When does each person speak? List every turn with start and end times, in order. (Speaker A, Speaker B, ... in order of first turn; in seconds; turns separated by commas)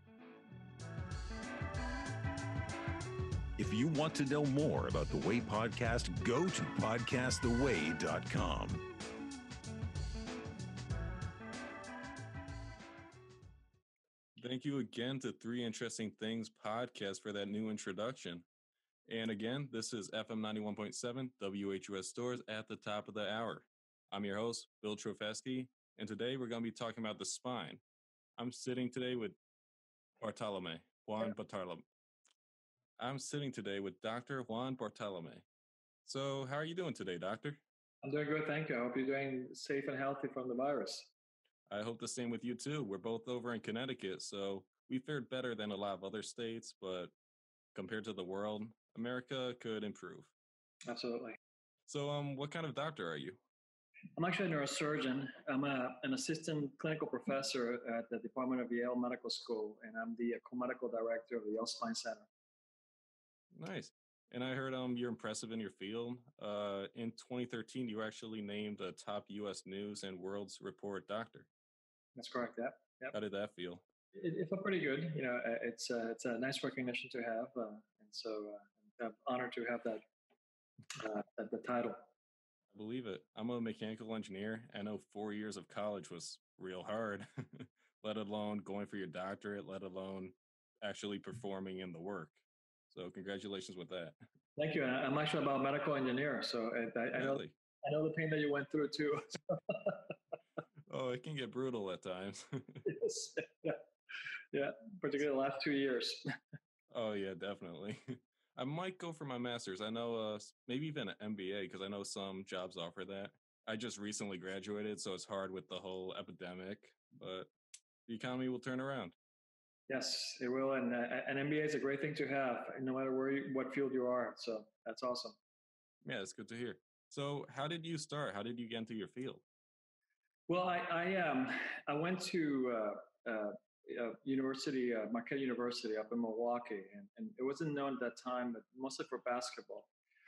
Speaker A: 3.6-8.8, Speaker B: 14.4-18.4, Speaker B: 19.1-27.8, Speaker B: 28.4-29.4, Speaker B: 30.2-31.8, Speaker B: 33.0-35.4, Speaker B: 36.0-37.6, Speaker C: 38.0-41.1, Speaker B: 41.7-47.1, Speaker B: 47.7-50.3, Speaker C: 50.9-51.4, Speaker B: 51.9-53.4, Speaker C: 54.1-62.3, Speaker B: 63.5-71.5, Speaker C: 72.2-73.1, Speaker B: 73.1-73.8, Speaker C: 74.1-80.0, Speaker C: 80.9-82.0, Speaker B: 82.7-92.4, Speaker B: 92.9-94.2, Speaker C: 94.6-100.1, Speaker B: 97.2-97.5, Speaker B: 100.9-102.8, Speaker C: 102.8-103.8, Speaker C: 104.5-106.3, Speaker B: 106.9-117.5, Speaker B: 118.1-119.1, Speaker C: 119.9-125.3, Speaker B: 126.0-129.4, Speaker C: 130.5-139.9